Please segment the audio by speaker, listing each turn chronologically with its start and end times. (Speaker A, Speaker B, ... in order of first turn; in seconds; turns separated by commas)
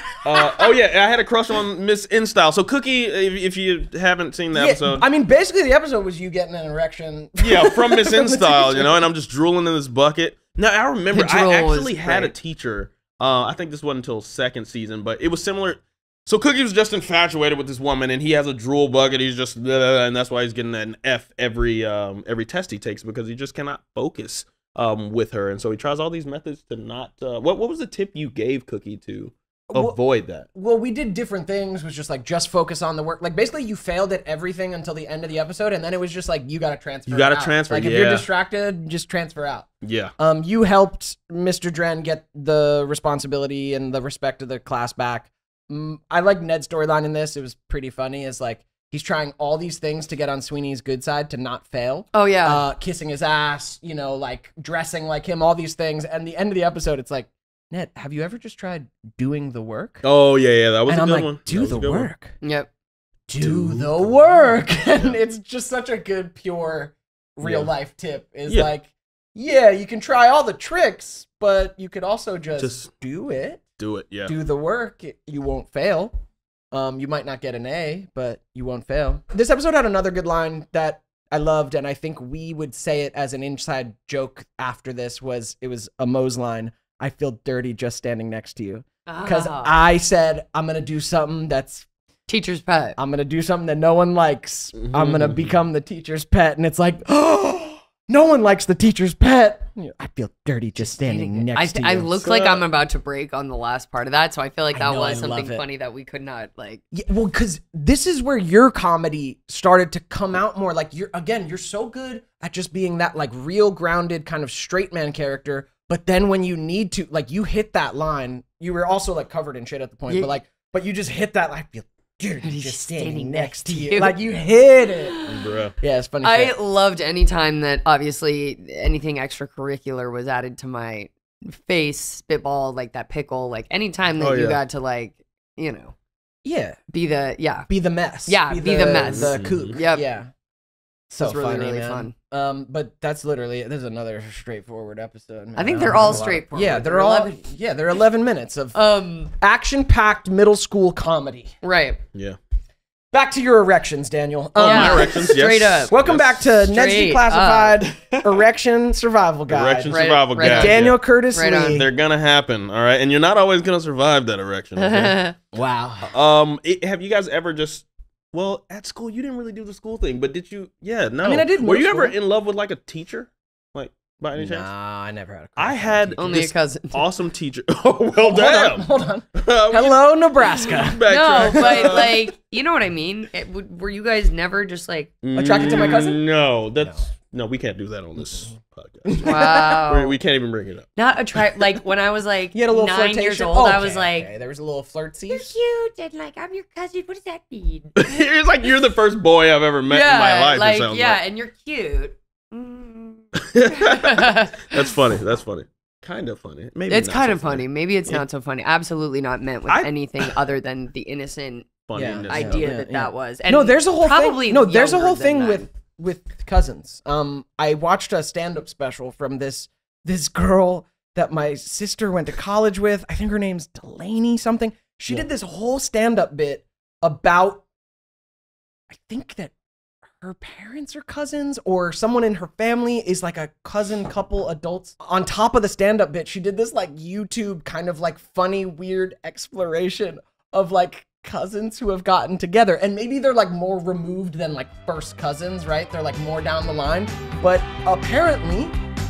Speaker A: 0.2-5.1, Speaker B: 4.5-9.1, Speaker A: 7.4-30.5, Speaker C: 11.1-12.3, Speaker B: 29.7-30.0, Speaker B: 30.5-60.0, Speaker A: 37.1-38.3, Speaker A: 39.8-40.1, Speaker C: 52.1-52.6, Speaker A: 60.0-62.1, Speaker B: 60.9-62.4, Speaker C: 62.4-62.7, Speaker B: 63.3-73.7, Speaker A: 63.4-65.1, Speaker A: 67.4-67.7, Speaker A: 72.6-72.9, Speaker A: 73.8-74.3, Speaker B: 74.3-76.1, Speaker B: 76.7-91.9, Speaker C: 89.1-89.8, Speaker C: 92.3-93.0, Speaker B: 93.0-102.2, Speaker A: 94.8-95.6, Speaker C: 100.8-106.8, Speaker A: 102.2-102.6, Speaker B: 104.7-105.7, Speaker B: 106.9-125.2, Speaker C: 120.1-120.4, Speaker C: 122.4-124.2, Speaker C: 124.8-125.5, Speaker A: 125.3-125.7, Speaker B: 125.8-126.5, Speaker C: 126.2-135.9, Speaker A: 134.2-134.6, Speaker B: 136.4-136.8, Speaker C: 136.9-137.7, Speaker B: 137.7-140.3, Speaker C: 138.3-140.1, Speaker A: 139.0-139.8, Speaker B: 141.1-148.8, Speaker C: 141.2-142.1, Speaker C: 145.6-147.4, Speaker A: 145.8-146.2, Speaker C: 148.7-149.3, Speaker B: 149.4-151.5, Speaker C: 151.6-152.0, Speaker B: 153.1-161.9, Speaker A: 154.6-156.6, Speaker C: 154.6-155.9, Speaker C: 156.7-157.8, Speaker A: 157.9-158.4, Speaker A: 159.5-161.0, Speaker C: 159.9-160.8, Speaker C: 161.3-161.8, Speaker A: 161.7-165.2, Speaker C: 164.8-165.4, Speaker B: 165.5-166.1, Speaker A: 166.0-174.7, Speaker B: 171.2-172.2, Speaker B: 174.4-176.4, Speaker A: 175.6-182.3, Speaker C: 176.2-177.1, Speaker B: 178.2-182.0, Speaker C: 181.1-185.2, Speaker A: 185.2-190.9, Speaker B: 185.3-186.2, Speaker B: 186.8-187.1, Speaker B: 188.2-188.5, Speaker B: 189.1-189.8, Speaker C: 189.2-190.2, Speaker C: 191.0-194.3, Speaker B: 192.5-195.5, Speaker C: 195.3-198.1, Speaker A: 198.0-201.2, Speaker C: 199.9-204.8, Speaker A: 203.5-208.2, Speaker C: 206.9-211.7, Speaker A: 209.7-210.4, Speaker A: 211.9-212.7, Speaker B: 211.9-227.7, Speaker C: 212.3-215.7, Speaker B: 228.9-229.5, Speaker B: 230.1-248.7